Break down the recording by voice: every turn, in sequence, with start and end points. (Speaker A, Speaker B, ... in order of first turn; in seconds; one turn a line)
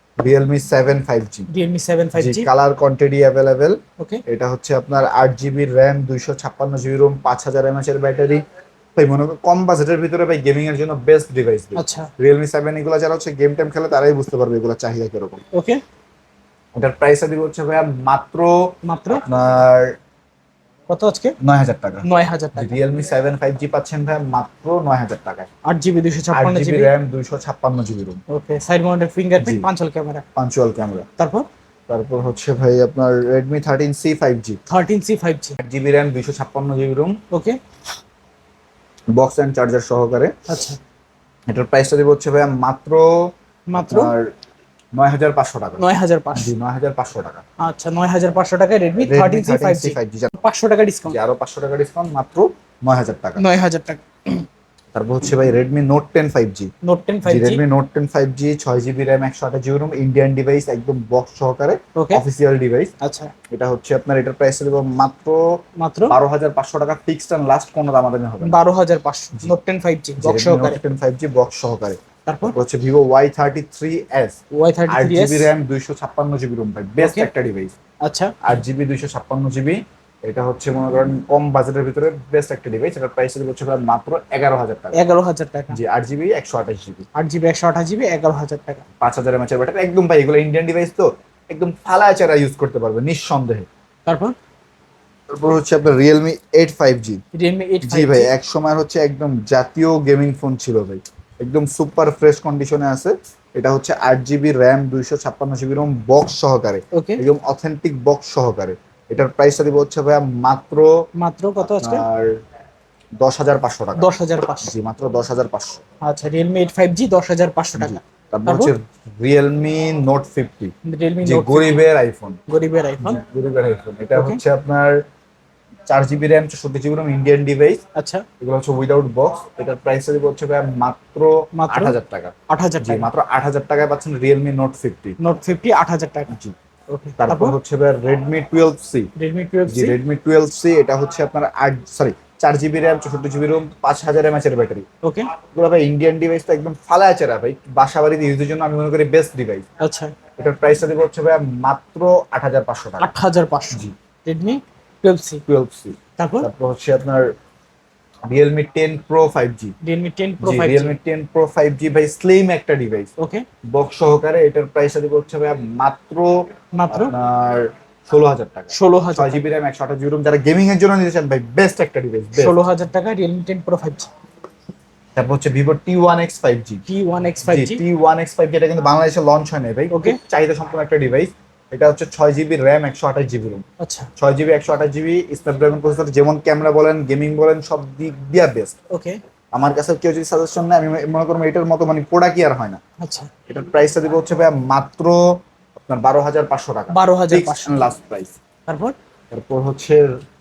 Speaker A: 0.2-1.5
Speaker B: 1.5-2.5
Speaker A: 2.2-8.4
Speaker A: 9.0-15.4
Speaker B: 11.8-12.1
Speaker B: 15.5-15.8
Speaker A: 16.8-20.0
Speaker B: 18.8-19.2
Speaker B: 20.9-21.4
Speaker A: 21.4-25.5
Speaker B: 22.0-22.8
Speaker B: 25.6-26.9
Speaker A: 26.3-28.2
Speaker B: 28.3-30.2
Speaker A: 29.4-29.7
Speaker A: 30.4-31.1
Speaker B: 31.2-31.5
Speaker A: 31.9-34.6
Speaker B: 34.7-35.6
Speaker A: 35.6-37.2
Speaker B: 37.3-37.6
Speaker A: 39.1-40.3
Speaker B: 40.5-40.8
Speaker A: 41.5-44.3
Speaker B: 43.7-44.1
Speaker A: 44.9-45.8
Speaker B: 45.8-46.5
Speaker A: 46.4-47.4
Speaker B: 47.6-51.2
Speaker A: 49.0-50.4
Speaker A: 51.1-53.4
Speaker B: 53.4-54.5
Speaker A: 54.9-56.7
Speaker B: 56.8-57.6
Speaker A: 57.2-62.9
Speaker B: 62.0-62.2
Speaker B: 63.0-63.3
Speaker A: 63.5-65.4
Speaker B: 65.8-66.2
Speaker A: 66.1-68.6
Speaker B: 68.4-70.8
Speaker A: 70.2-74.4
Speaker B: 72.2-72.5
Speaker B: 74.5-75.5
Speaker A: 74.9-77.8
Speaker B: 77.0-77.3
Speaker B: 78.0-78.3
Speaker A: 78.4-85.0
Speaker B: 84.9-85.8
Speaker A: 85.7-87.1
Speaker B: 87.1-88.8
Speaker A: 89.0-93.7
Speaker B: 94.0-94.3
Speaker A: 95.3-97.2
Speaker B: 97.3-98.3
Speaker A: 97.9-110.9
Speaker B: 106.9-107.2
Speaker B: 111.2-112.0
Speaker A: 111.6-112.3
Speaker A: 113.2-114.1
Speaker B: 114.0-114.7
Speaker A: 114.6-115.8
Speaker B: 116.0-118.7
Speaker A: 117.8-120.7
Speaker B: 120.8-121.8
Speaker A: 121.2-122.4
Speaker B: 122.5-123.2
Speaker A: 123.0-125.0
Speaker A: 125.9-127.8
Speaker B: 127.9-128.2
Speaker A: 128.4-135.2
Speaker B: 131.6-132.0
Speaker B: 132.5-133.1
Speaker B: 135.2-136.3
Speaker A: 136.3-136.5
Speaker B: 136.9-137.6
Speaker A: 137.2-139.1
Speaker B: 139.2-140.0
Speaker A: 139.7-144.9
Speaker B: 145.0-145.3
Speaker A: 145.4-149.7
Speaker B: 149.8-150.1
Speaker A: 150.4-153.1
Speaker B: 153.0-155.4
Speaker A: 155.5-157.3
Speaker B: 156.2-156.5
Speaker A: 158.3-159.7
Speaker B: 159.8-160.9
Speaker A: 160.4-163.1
Speaker B: 163.2-163.4
Speaker A: 163.7-172.6
Speaker B: 166.8-167.1
Speaker B: 168.7-169.4
Speaker B: 172.4-174.1
Speaker A: 175.2-176.8
Speaker B: 176.9-177.8
Speaker A: 177.4-183.6
Speaker B: 179.9-180.2
Speaker B: 183.8-184.1
Speaker A: 184.2-188.8
Speaker B: 188.9-189.2
Speaker A: 189.5-192.8
Speaker B: 193.0-193.3
Speaker A: 193.5-198.4
Speaker B: 196.9-197.9
Speaker B: 198.7-198.9
Speaker A: 199.3-200.1